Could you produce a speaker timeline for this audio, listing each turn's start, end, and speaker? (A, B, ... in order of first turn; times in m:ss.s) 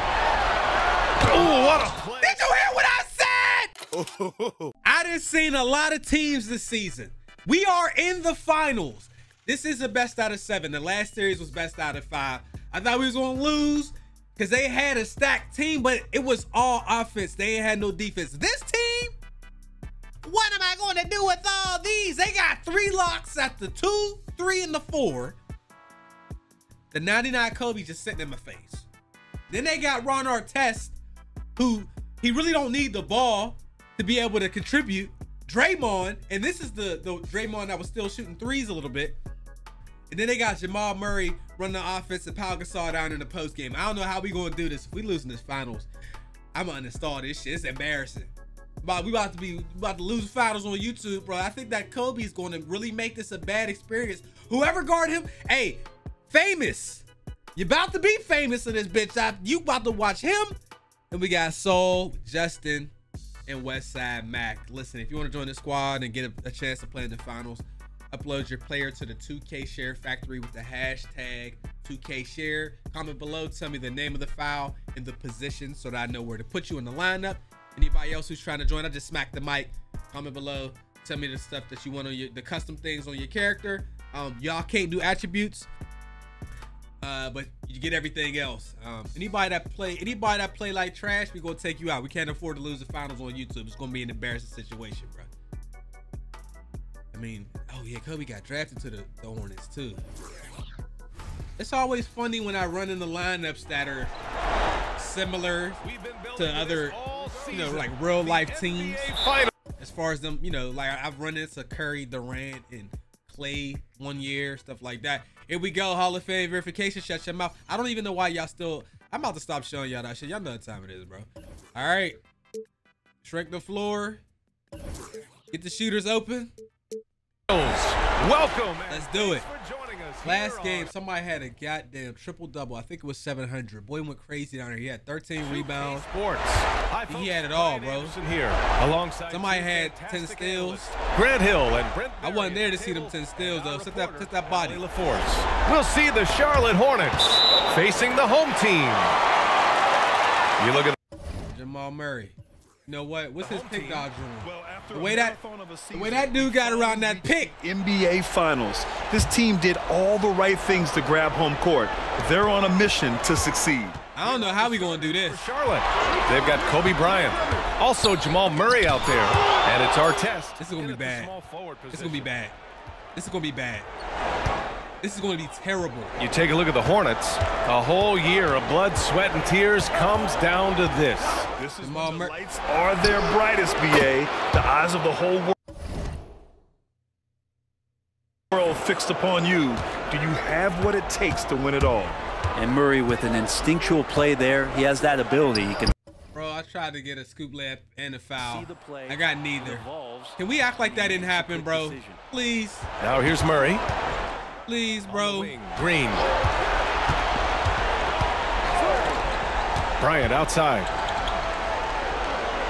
0:01.2-0:02.5 A
0:02.2-0:03.8 B
0:04.0-0:04.7 C
0:04.8-0:19.2 B
0:20.2-0:25.4 B
0:26.9-0:28.9 B
0:29.5-0:31.0 B
0:31.6-0:39.2 B
0:40.1-0:45.9 B
0:46.5-0:48.3 B
0:48.8-1:00.5 B
1:01.1-1:02.9 B
1:03.5-1:25.7 B
1:27.0-1:35.3 B
1:37.1-1:40.0 B
1:41.6-1:44.1 B
1:45.0-1:45.8 B
1:45.8-1:49.5 A
1:46.4-1:49.1 B
1:49.8-2:02.2 B
2:03.2-2:04.2 B
2:05.5-2:06.5 B
2:07.5-2:10.9 A
2:08.9-2:09.5 B
2:10.2-2:16.1 B
2:15.4-2:29.2 A
2:17.1-2:18.2 B
2:19.3-2:21.0 B
2:22.2-2:24.8 B
2:30.6-2:31.0 A
2:31.5-2:32.4 B
2:32.9-2:35.4 B
2:33.4-2:34.1 A
2:34.6-2:44.0 C
2:35.9-2:37.5 B
2:44.1-2:45.4 B
2:44.2-2:52.3 A
2:50.6-2:51.3 B
2:51.9-2:52.6 B
2:53.2-2:53.9 B
2:55.0-2:56.2 B
2:56.2-3:01.5 A
3:01.7-3:05.5 C
3:01.8-3:02.3 B
3:08.6-3:12.2 C
3:12.6-3:15.9 D
3:16.3-3:19.8 B
3:18.4-3:22.2 D
3:20.4-3:22.9 B
3:23.0-3:23.8 A
3:24.7-3:25.6 B
3:25.1-3:26.3 A
3:30.0-3:30.9 A